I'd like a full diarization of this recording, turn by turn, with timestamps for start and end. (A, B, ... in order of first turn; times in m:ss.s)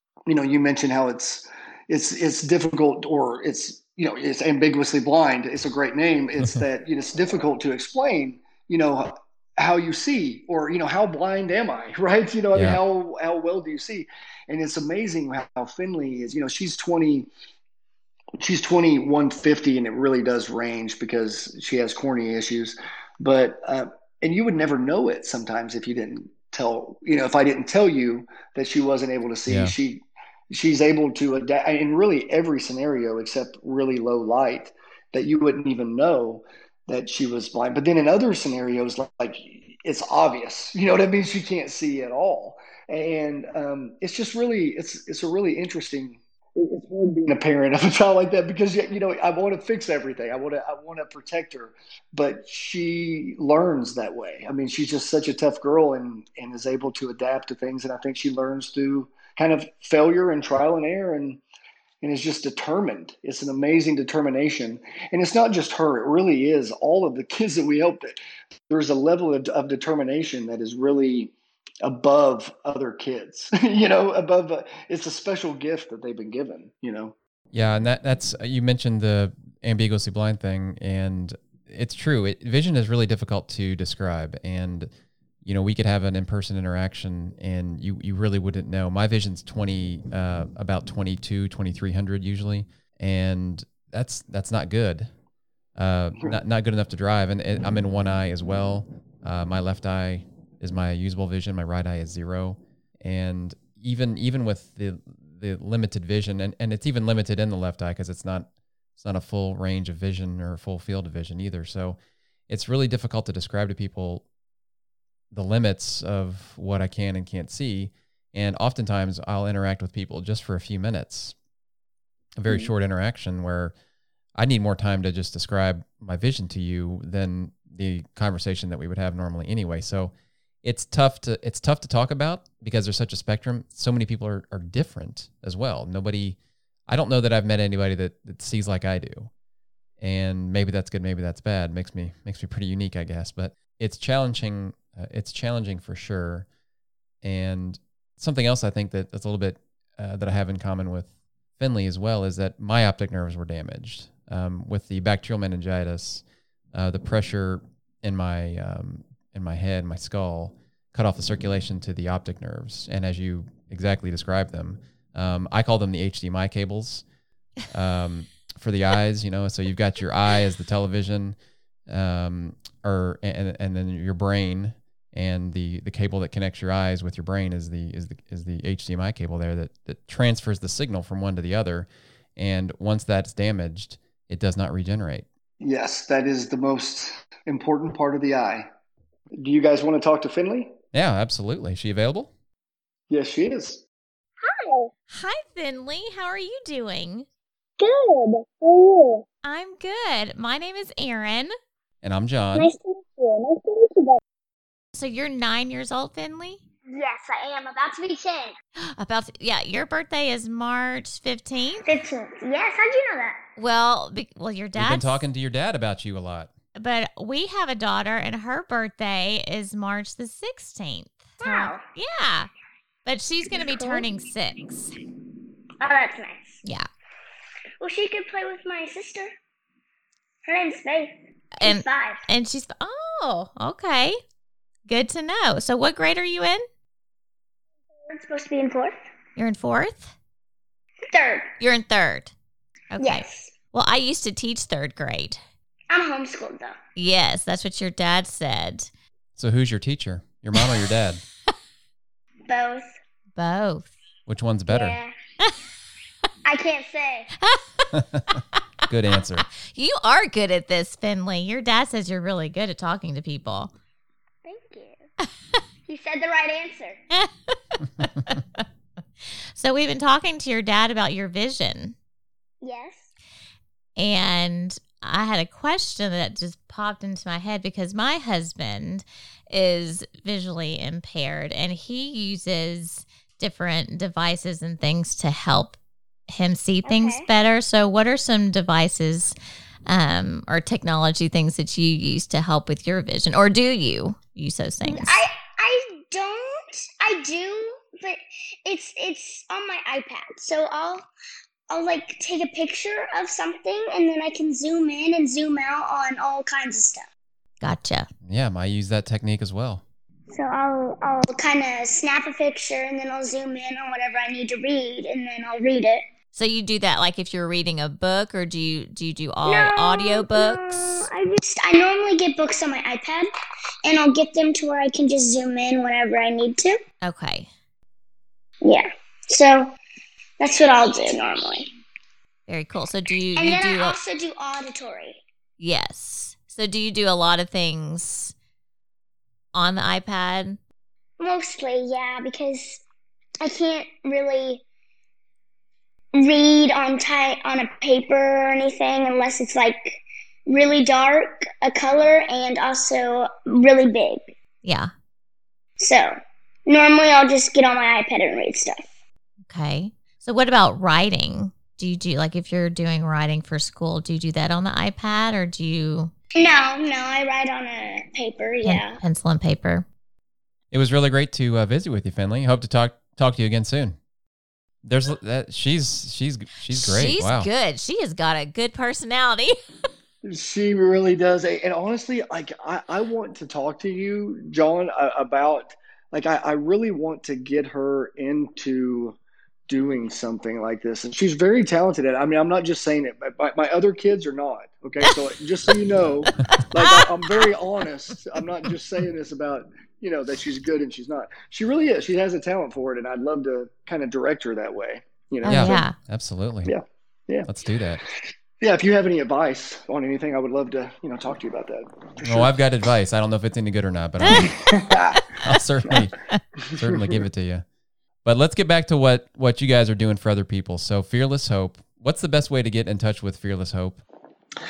0:00.3-0:17.3 A
0:12.5-0:12.8 B
0:18.4-1:01.4 A
0:29.5-0:29.8 B
1:02.0-1:08.2 A
1:08.7-1:17.1 A
1:17.5-1:24.9 B
1:25.4-1:35.1 B
1:35.8-1:48.5 B
1:49.0-1:54.2 B
1:55.3-2:01.4 B
2:02.4-2:03.8 B
2:04.4-2:19.3 B
2:20.0-2:26.5 B
2:27.2-2:47.0 B
2:47.7-2:51.4 B
2:51.9-3:05.2 B
3:05.6-3:08.7 A
3:09.4-3:10.8 A
3:10.9-3:12.3 B
3:13.1-3:13.8 A
3:14.4-3:14.9 C
3:15.1-3:17.3 D
3:17.8-3:19.2 C
3:19.4-3:21.5 D
3:22.0-3:22.7 B
3:22.5-3:24.2 C
3:24.9-3:26.6 D
3:26.9-3:28.5 C
3:28.9-3:31.9 D
3:31.8-3:33.4 C
3:33.6-3:35.2 D
3:34.8-3:36.5 B
3:36.8-3:42.5 D
3:41.4-3:41.8 C
3:43.0-3:44.9 D
3:43.5-3:44.0 C
3:45.8-3:46.6 C
3:47.8-3:49.3 C
3:50.4-3:52.2 C
3:51.6-3:54.2 D
3:54.9-3:56.6 D
3:58.0-3:59.0 C
3:59.4-4:00.1 D
4:01.1-4:01.5 C
4:01.6-4:02.3 D
4:02.9-4:05.4 D
4:03.0-4:03.5 C
4:05.9-4:06.8 C
4:07.0-4:08.9 D
4:09.4-4:11.2 B
4:12.5-4:12.9 C
4:13.4-4:13.9 D
4:14.3-4:15.0 B
4:14.7-4:15.2 C
4:16.4-4:17.3 C
4:17.4-4:18.0 D
4:18.0-4:18.2 B
4:18.9-4:19.4 B
4:19.6-4:23.7 D
4:24.4-4:25.0 C
4:25.9-4:27.0 C
4:27.1-4:28.6 D
4:29.6-4:32.0 D
4:32.6-4:33.1 C
4:34.0-4:45.8 D
4:46.3-4:49.4 D
4:46.8-4:47.2 C
4:49.9-4:55.2 D
4:54.9-5:01.0 C
5:01.7-5:07.1 C
5:07.6-5:08.1 D
5:08.2-5:09.8 B
5:10.3-5:16.0 C
5:16.3-5:21.1 D
5:19.5-5:23.3 C
5:23.8-5:26.8 C
5:27.0-5:27.5 D
5:28.6-5:29.8 C
5:30.4-5:31.7 C
5:32.5-5:34.0 D
5:33.4-5:35.2 C
5:35.6-5:38.3 D
5:39.6-5:40.6 D
5:41.2-5:42.8 C
5:43.4-5:44.6 C
5:46.1-5:54.4 C
5:54.6-5:54.9 D
5:55.8-5:56.2 C
5:56.7-5:58.8 C
5:59.5-6:06.1 D
6:06.4-6:09.0 C
6:08.6-6:09.9 D
6:10.7-6:14.0 B
6:14.8-6:17.5 B
6:16.7-6:19.6 D
6:20.2-6:29.2 A
6:29.7-6:45.8 A
6:36.8-6:37.1 D
6:45.4-6:45.9 D
6:45.4-6:46.7 B
6:46.6-6:47.5 A
6:47.5-6:48.0 B
6:48.6-6:52.5 A
6:52.2-6:54.8 B
6:54.7-6:55.2 A
6:55.4-6:57.6 B
6:56.8-6:57.2 A
6:58.2-7:04.0 B